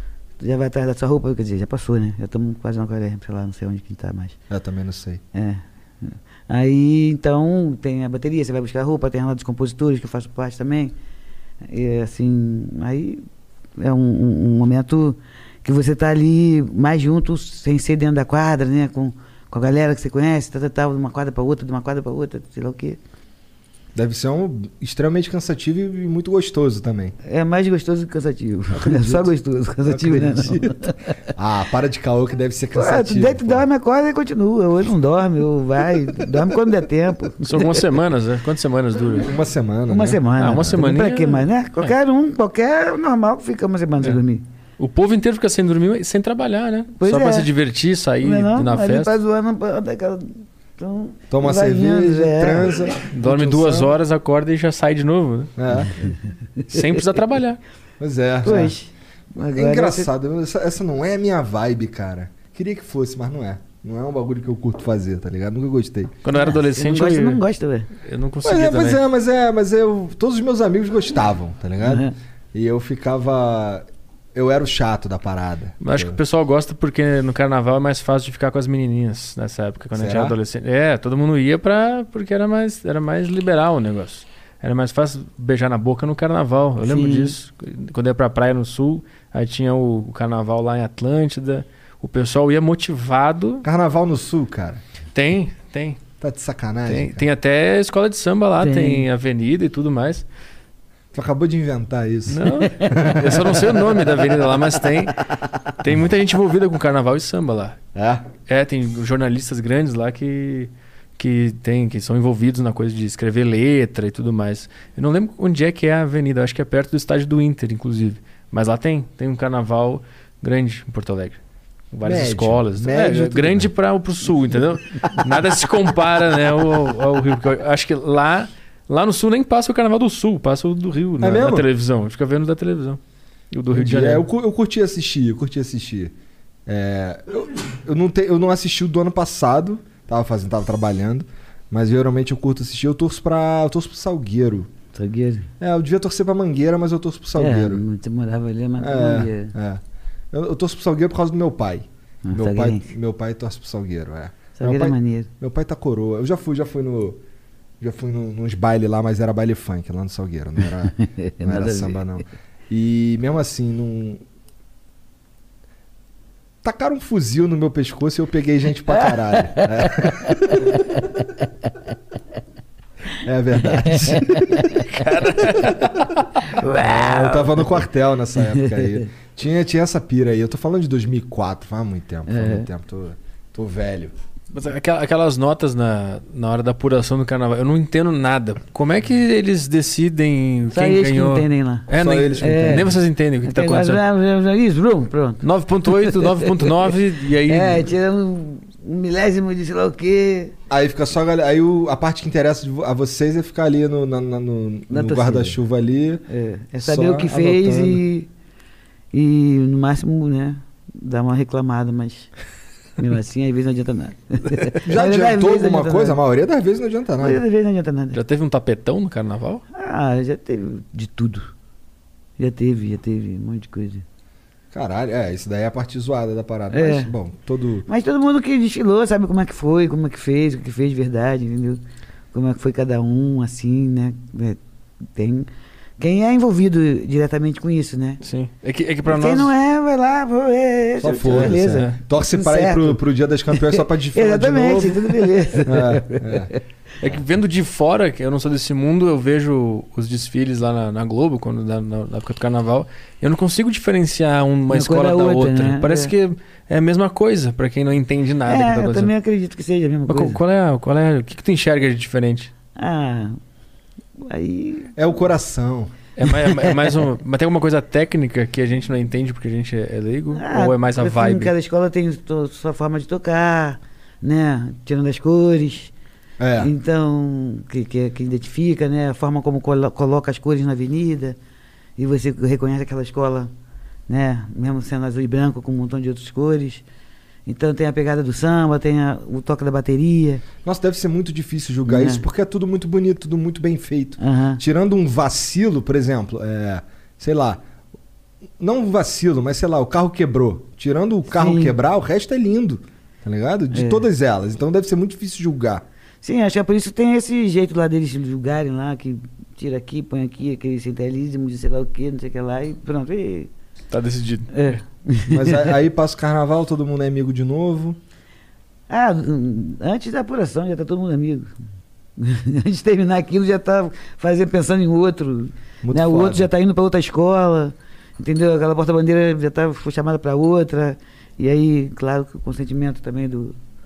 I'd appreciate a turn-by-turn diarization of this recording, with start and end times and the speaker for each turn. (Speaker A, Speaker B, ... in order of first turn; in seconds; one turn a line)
Speaker A: 0.4-4.4
Speaker B: 4.5-5.2
Speaker A: 5.3-10.9
Speaker A: 11.6-13.2
Speaker A: 13.8-23.0
Speaker B: 23.9-27.1
Speaker A: 27.2-31.1
Speaker B: 28.7-29.3
Speaker B: 29.8-33.6
Speaker A: 32.7-37.8
Speaker C: 37.4-39.3
Speaker B: 39.2-40.7
Speaker A: 39.9-44.4
Speaker C: 40.4-41.9
Speaker C: 44.8-49.1
Speaker A: 47.0-47.5
Speaker A: 48.2-52.9
Speaker B: 51.3-53.9
Speaker C: 53.1-55.5
Speaker B: 55.6-56.1
Speaker A: 56.6-57.0
Speaker C: 56.7-57.6
Speaker B: 58.0-58.7
Speaker A: 58.4-60.1
Speaker B: 59.5-66.1
Speaker C: 66.2-67.4
Speaker A: 66.3-67.9
Speaker C: 68.0-69.0
Speaker B: 68.4-76.2
Speaker A: 71.8-72.1
Speaker C: 75.8-93.7
Speaker B: 79.9-80.3
Speaker A: 86.8-87.3
Speaker B: 93.6-94.8
Speaker C: 95.1-96.0
Speaker B: 96.2-97.2
Speaker C: 96.9-100.2
Speaker A: 98.6-99.1
Speaker B: 101.1-104.0
Speaker C: 102.3-105.2
Speaker C: 105.8-107.8
Speaker B: 107.9-108.3
Speaker C: 108.5-121.4
Speaker C: 121.9-133.0
Speaker B: 122.0-123.7
Speaker B: 131.2-131.7
Speaker C: 133.5-134.2
Speaker B: 133.7-136.1
Speaker B: 136.7-144.7
Speaker A: 144.9-145.5
Speaker B: 145.6-147.8
Speaker A: 147.4-149.5
Speaker B: 148.8-157.2
Speaker A: 152.2-152.9
Speaker A: 154.6-155.3
Speaker B: 157.8-164.2
Speaker A: 160.9-162.0
Speaker B: 166.6-170.8
Speaker A: 169.0-171.2
Speaker B: 173.2-174.7
Speaker A: 173.8-174.8
Speaker C: 174.7-176.2
Speaker B: 175.6-175.8
Speaker A: 176.4-177.8
Speaker B: 176.7-184.1
Speaker A: 178.3-179.1
Speaker A: 182.3-182.7
Speaker C: 184.5-194.0
Speaker A: 190.7-192.9
Speaker B: 191.9-193.0
Speaker A: 193.4-200.5
Speaker C: 195.4-197.9
Speaker B: 200.7-206.2
Speaker A: 204.9-205.6
Speaker A: 206.3-208.3
Speaker B: 206.8-208.0
Speaker A: 209.1-212.3
Speaker A: 213.0-216.2
Speaker B: 214.8-217.4
Speaker A: 217.2-218.2
Speaker C: 218.1-219.6
Speaker A: 219.7-221.5
Speaker A: 222.4-224.0
Speaker B: 224.7-227.8
Speaker A: 226.7-227.1
Speaker A: 227.9-231.8
Speaker A: 232.3-234.6
Speaker A: 235.1-238.2
Speaker C: 238.2-239.5
Speaker A: 239.1-243.0
Speaker B: 241.0-246.5
Speaker C: 241.2-242.0
Speaker A: 243.5-246.6
Speaker C: 247.0-259.1
Speaker A: 254.7-256.1
Speaker A: 258.5-260.4
Speaker C: 260.1-262.5
Speaker A: 262.8-263.4
Speaker A: 264.2-264.9
Speaker B: 264.9-265.9
Speaker C: 266.1-271.5
Speaker A: 266.2-266.9
Speaker A: 270.3-275.9
Speaker B: 276.4-276.7
Speaker A: 276.6-281.4
Speaker A: 282.0-283.5
Speaker A: 284.1-286.8
Speaker A: 287.4-290.4
Speaker B: 290.6-297.6
Speaker A: 291.9-292.2
Speaker A: 294.2-294.6
Speaker B: 298.6-305.8
Speaker A: 301.3-301.8
Speaker A: 303.7-304.0
Speaker A: 306.2-313.5
Speaker C: 313.9-314.8
Speaker A: 314.5-315.7
Speaker B: 315.3-318.0
Speaker A: 318.9-321.5
Speaker A: 322.2-333.6
Speaker B: 325.8-326.5